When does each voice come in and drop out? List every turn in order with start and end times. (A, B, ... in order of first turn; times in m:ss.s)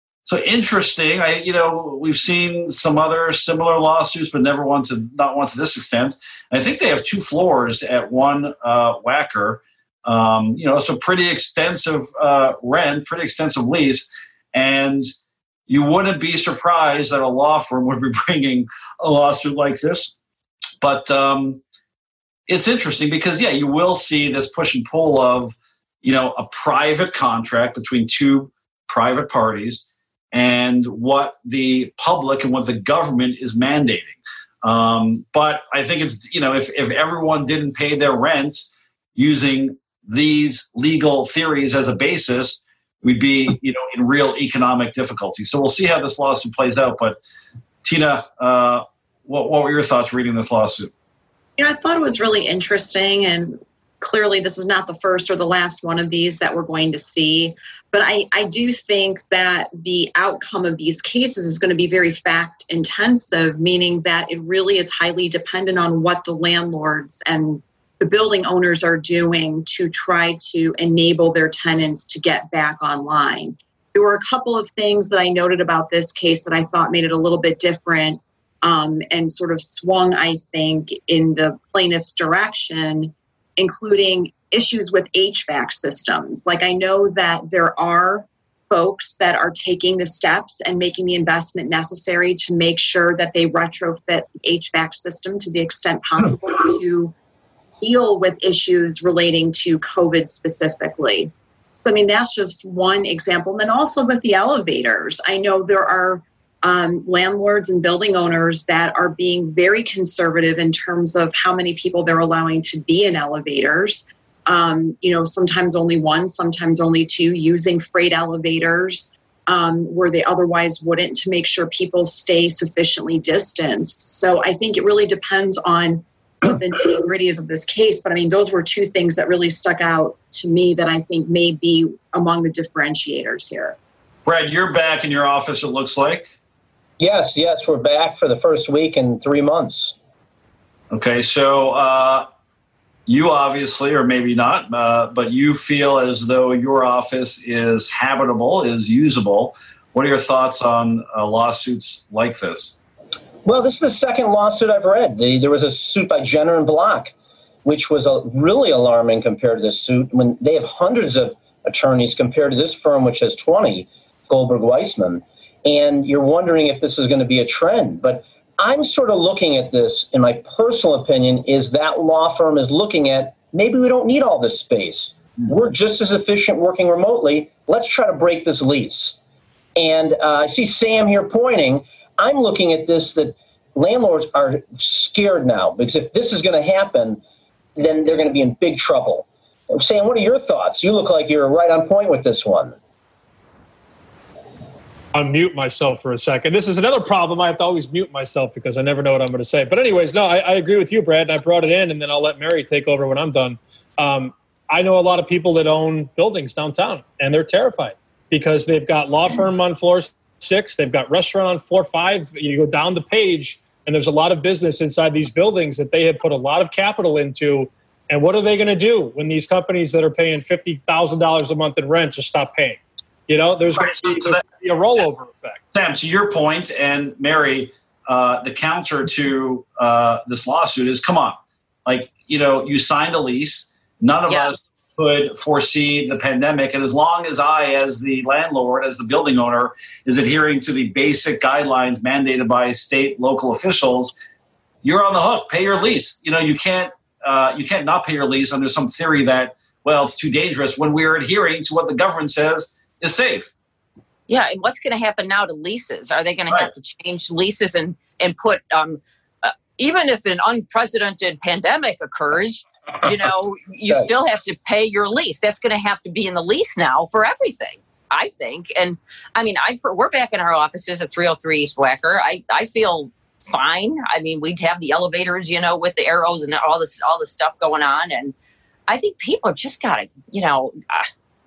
0:00.2-0:15.1 A
0:15.7-0:20.1 A
0:20.8-0:21.6 A
0:22.5-0:47.2 A
0:47.8-0:50.9 A
0:51.6-1:37.1 B
1:37.8-1:41.3 B
1:41.8-2:13.8 B
2:14.2-2:16.3 A
2:17.0-2:19.9 C
2:20.9-2:22.3 A
2:23.1-2:32.7 A
2:33.4-2:37.1 C
2:37.6-2:59.2 C
2:59.8-3:07.2 C
3:07.8-3:12.8 C
3:15.1-3:45.6 D
3:43.7-3:44.4 A
3:45.7-4:04.1 A
3:54.3-3:54.5 E
4:04.8-4:13.5 A
4:14.3-4:38.3 E
4:38.9-4:41.1 E